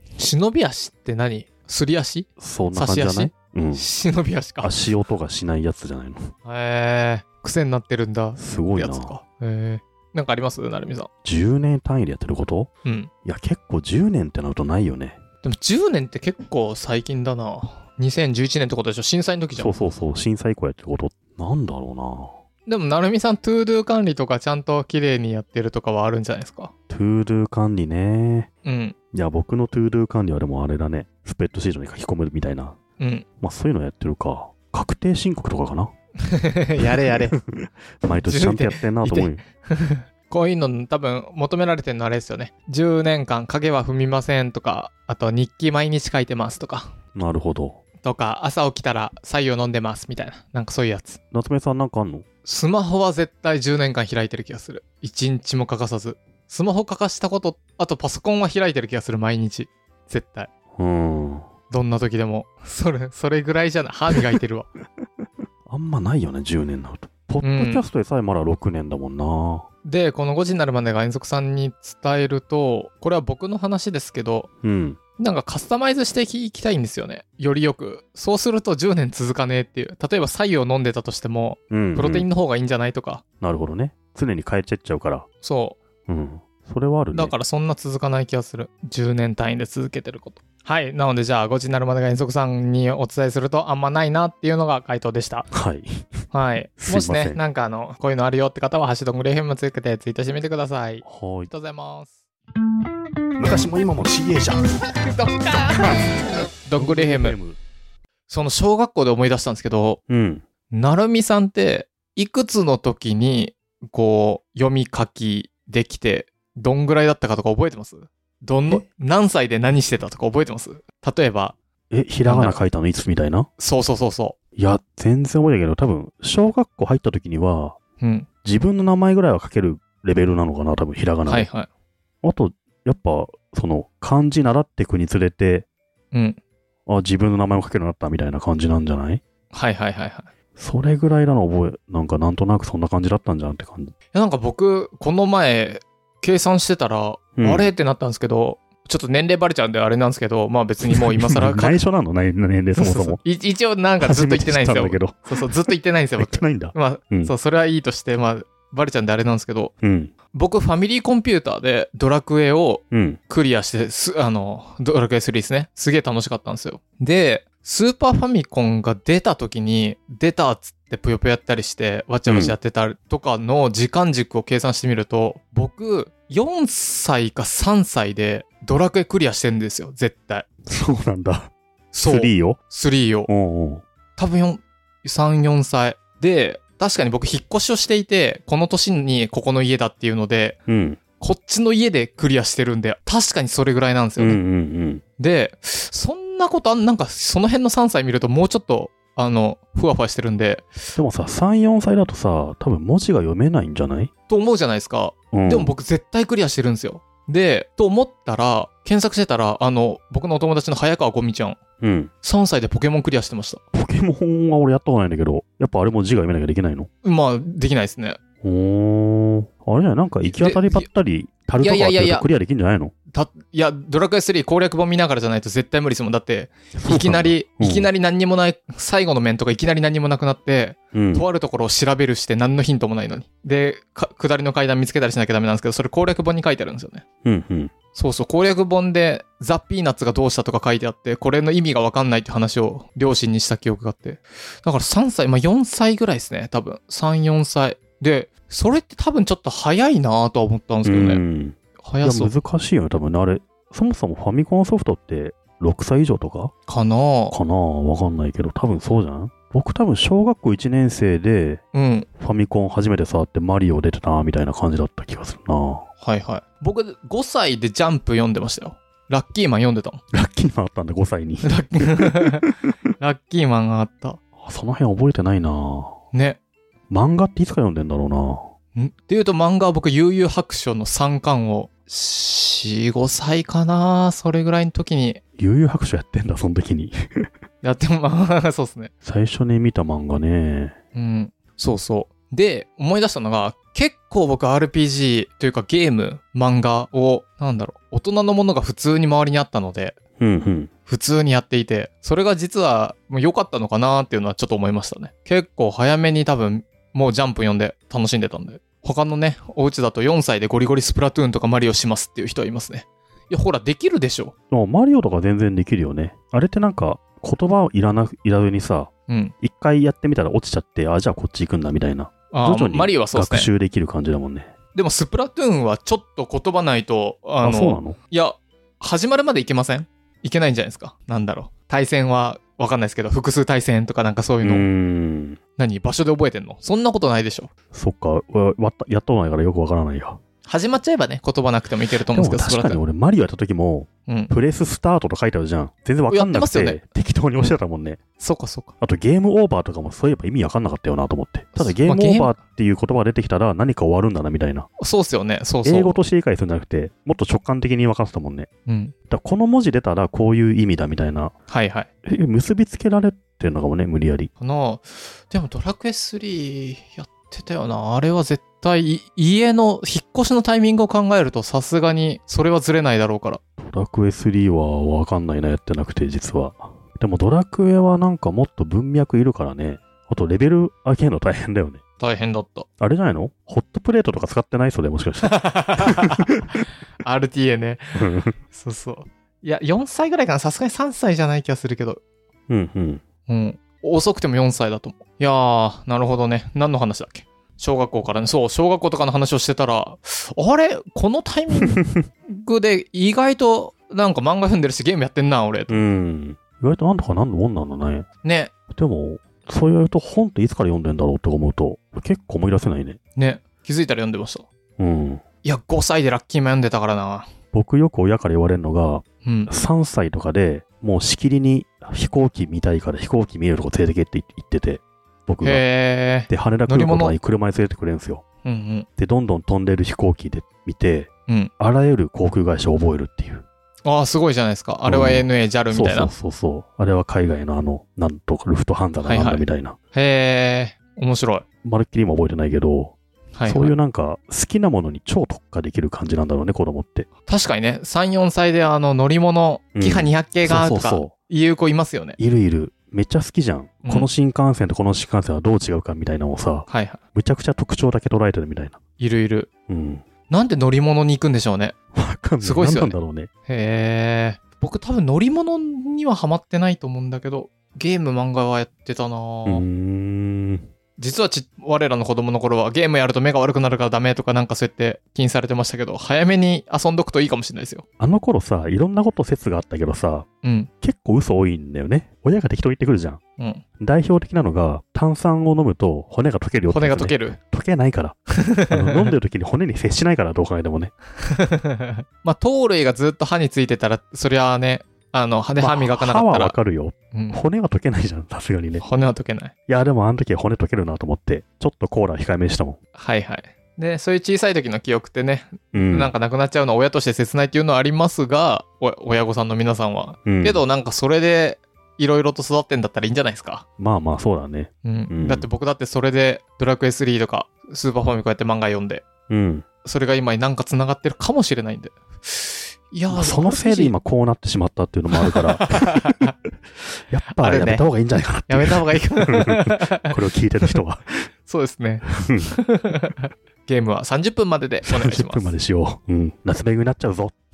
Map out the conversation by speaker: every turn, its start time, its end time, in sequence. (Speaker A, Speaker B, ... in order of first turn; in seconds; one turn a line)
Speaker A: 0.2-4.8
Speaker B: 2.4-3.9
Speaker B: 4.6-6.3
Speaker A: 6.5-11.1
Speaker B: 8.4-9.2
Speaker B: 11.2-12.7
Speaker A: 12.8-13.1
Speaker B: 13.2-15.2
Speaker A: 15.4-20.0
Speaker B: 19.6-22.4
Speaker A: 22.7-26.7
Speaker B: 26.9-28.5
Speaker A: 28.6-28.9
Speaker B: 29.1-32.8
Speaker A: 33.0-33.2
Speaker B: 33.4-35.9
Speaker A: 36.2-37.4
Speaker B: 36.8-39.4
Speaker A: 38.1-46.9
Speaker B: 47.1-47.8
Speaker A: 48.0-51.2
Speaker B: 51.3-52.2
Speaker A: 52.5-60.5
Speaker B: 60.8-61.5
Speaker A: 61.7-64.7
Speaker B: 65.7-69.7
Speaker A: 67.4-67.8
Speaker A: 69.8-74.5
Speaker B: 74.6-75.0
Speaker A: 75.2-83.2
Speaker B: 81.7-82.3
Speaker B: 83.4-85.3
Speaker A: 85.4-85.8
Speaker B: 86.1-87.3
Speaker A: 87.1-95.5
Speaker B: 95.5-96.1
Speaker A: 96.3-102.2
Speaker B: 96.8-97.4
Speaker B: 101.0-101.5
Speaker B: 103.4-104.8
Speaker A: 105.2-106.0
Speaker A: 106.7-107.4
Speaker B: 106.8-107.6
Speaker A: 108.3-110.0
Speaker B: 110.1-110.4
Speaker A: 110.7-121.6
Speaker B: 121.9-123.5
Speaker A: 122.3-122.6
Speaker A: 123.6-124.4
Speaker B: 124.6-127.8
Speaker A: 128.0-128.3
Speaker B: 128.4-131.5
Speaker A: 131.3-131.7
Speaker B: 132.2-135.7
Speaker A: 136.1-136.4
Speaker B: 136.9-139.2
Speaker A: 139.5-140.3
Speaker B: 140.6-143.9
Speaker A: 144.1-151.8
Speaker B: 147.4-147.7
Speaker B: 150.9-153.2
Speaker A: 152.8-159.7
Speaker B: 154.0-157.3
Speaker B: 159.8-160.1
Speaker A: 160.3-180.5
Speaker B: 162.9-163.2
Speaker B: 172.3-172.6
Speaker B: 180.7-181.5
Speaker A: 181.9-183.3
Speaker B: 182.0-182.6
Speaker B: 183.3-183.8
Speaker A: 184.2-190.6
Speaker B: 190.7-191.0
Speaker A: 191.2-194.4
Speaker B: 194.2-195.0
Speaker A: 195.2-200.8
Speaker B: 200.9-204.1
Speaker A: 204.3-211.6
Speaker B: 205.3-205.8
Speaker B: 211.8-212.1
Speaker A: 212.2-213.6
Speaker B: 213.7-216.9
Speaker A: 217.0-218.2
Speaker B: 218.4-222.9
Speaker A: 220.2-220.9
Speaker A: 221.6-222.3
Speaker A: 223.1-237.0
Speaker B: 226.7-227.9
Speaker B: 230.9-231.3
Speaker B: 237.2-237.7
Speaker A: 237.9-251.2
Speaker B: 250.8-256.5
Speaker A: 251.8-252.3
Speaker A: 256.7-257.4
Speaker B: 257.3-261.6
Speaker A: 261.7-262.1
Speaker B: 262.2-265.9
Speaker A: 266.0-270.0
Speaker B: 270.1-272.5
Speaker A: 271.4-272.4
Speaker A: 273.0-274.2
Speaker B: 274.4-276.0
Speaker A: 276.1-276.4
Speaker B: 276.9-278.5
Speaker A: 278.8-285.2
Speaker B: 285.4-287.3
Speaker A: 287.6-288.9
Speaker B: 289.0-290.8
Speaker A: 290.9-300.0
Speaker B: 300.2-300.7
Speaker A: 300.9-314.3
Speaker B: 314.5-318.9
Speaker A: 319.1-319.3
Speaker B: 319.4-324.5
Speaker A: 322.3-323.5
Speaker A: 324.7-334.7
Speaker B: 327.4-328.0
Speaker B: 334.4-335.4
Speaker A: 335.6-337.5
Speaker B: 337.7-340.2
Speaker A: 340.4-342.8
Speaker B: 342.1-348.0
Speaker A: 344.1-344.3
Speaker A: 346.1-346.8
Speaker A: 348.2-348.7
Speaker B: 348.8-354.7
Speaker A: 351.6-352.3
Speaker A: 354.8-356.0
Speaker B: 355.6-358.5
Speaker A: 358.7-358.9
Speaker B: 359.1-361.3
Speaker A: 361.5-361.9
Speaker B: 362.1-364.3
Speaker A: 364.4-373.4
Speaker B: 373.6-381.8
Speaker A: 382.0-382.7
Speaker B: 382.8-386.4
Speaker A: 385.2-386.3
Speaker A: 387.0-387.9
Speaker B: 387.9-388.4
Speaker A: 388.5-392.0
Speaker B: 392.5-393.0
Speaker A: 393.3-405.8
Speaker B: 401.8-402.0
Speaker B: 405.7-408.1
Speaker A: 408.2-408.5
Speaker B: 408.7-413.0
Speaker A: 413.2-414.5
Speaker B: 414.8-415.2
Speaker A: 415.4-417.3
Speaker B: 417.5-425.7
Speaker A: 419.2-419.5
Speaker A: 425.4-427.2
Speaker B: 426.2-428.2
Speaker A: 428.4-428.9
Speaker B: 429.0-433.4
Speaker A: 433.9-436.1
Speaker B: 434.9-439.8
Speaker A: 439.0-441.4
Speaker B: 441.6-447.1
Speaker A: 443.3-443.8
Speaker A: 447.3-452.2
Speaker B: 449.8-451.1
Speaker B: 452.2-458.8
Speaker A: 456.7-457.0
Speaker A: 459.0-459.5
Speaker B: 459.7-460.1
Speaker A: 460.3-461.8
Speaker B: 461.9-463.3
Speaker A: 462.4-462.9
Speaker A: 463.5-469.6
Speaker B: 469.5-470.7
Speaker A: 471.0-477.8
Speaker B: 478.0-480.3
Speaker A: 480.4-480.7
Speaker B: 480.8-483.2
Speaker A: 483.4-483.6
Speaker B: 483.8-490.9
Speaker A: 486.7-487.4
Speaker A: 488.4-489.1
Speaker A: 491.2-496.6
Speaker B: 495.6-498.8
Speaker A: 497.1-497.4
Speaker A: 498.8-499.5
Speaker B: 499.7-502.8
Speaker A: 503.0-513.6
Speaker B: 505.7-506.1
Speaker B: 510.2-510.6
Speaker B: 513.8-515.5
Speaker A: 514.9-519.0
Speaker B: 519.3-519.7
Speaker A: 519.8-524.0
Speaker B: 523.1-526.3
Speaker A: 525.2-526.3
Speaker B: 527.1-531.3
Speaker A: 527.3-527.9
Speaker A: 528.5-530.1
Speaker A: 531.5-535.5
Speaker B: 532.2-532.6
Speaker B: 534.9-537.3